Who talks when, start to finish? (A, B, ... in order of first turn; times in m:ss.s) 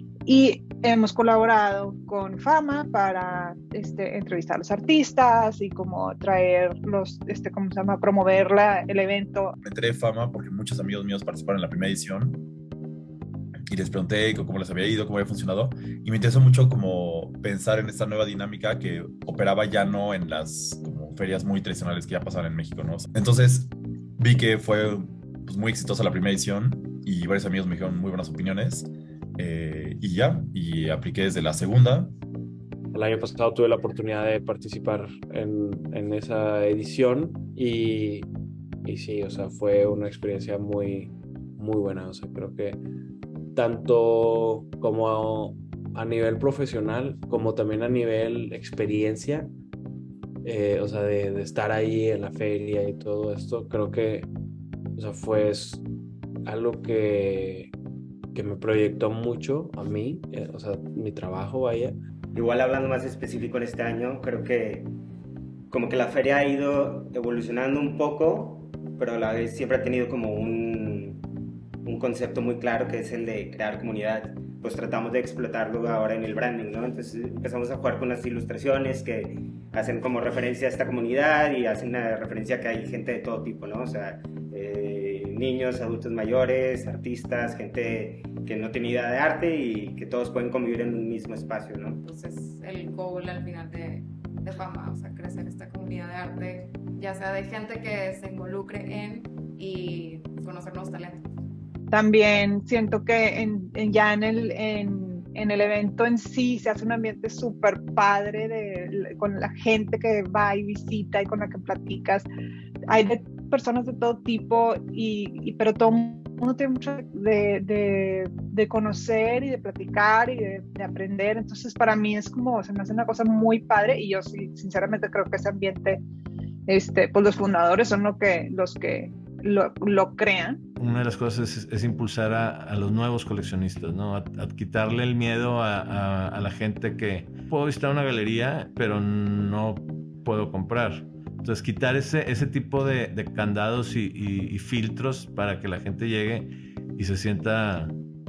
0:00.2-0:09.5 A
0:09.6-0:12.4 B
0:13.7-0:32.1 B
0:32.9-0:38.3 C
0:38.8-0:42.8 C
0:43.5-0:49.5 C
0:50.4-0:54.3 C
0:55.0-0:55.8 C
0:56.4-0:57.7 C
0:58.3-1:02.0 C
1:02.3-1:04.9 D
1:05.7-1:11.2 D
1:11.8-1:32.0 D
1:32.0-1:41.2 E
1:41.9-1:52.3 A
1:52.9-2:06.0 A
2:06.7-2:10.6 A
2:10.8-2:27.9 F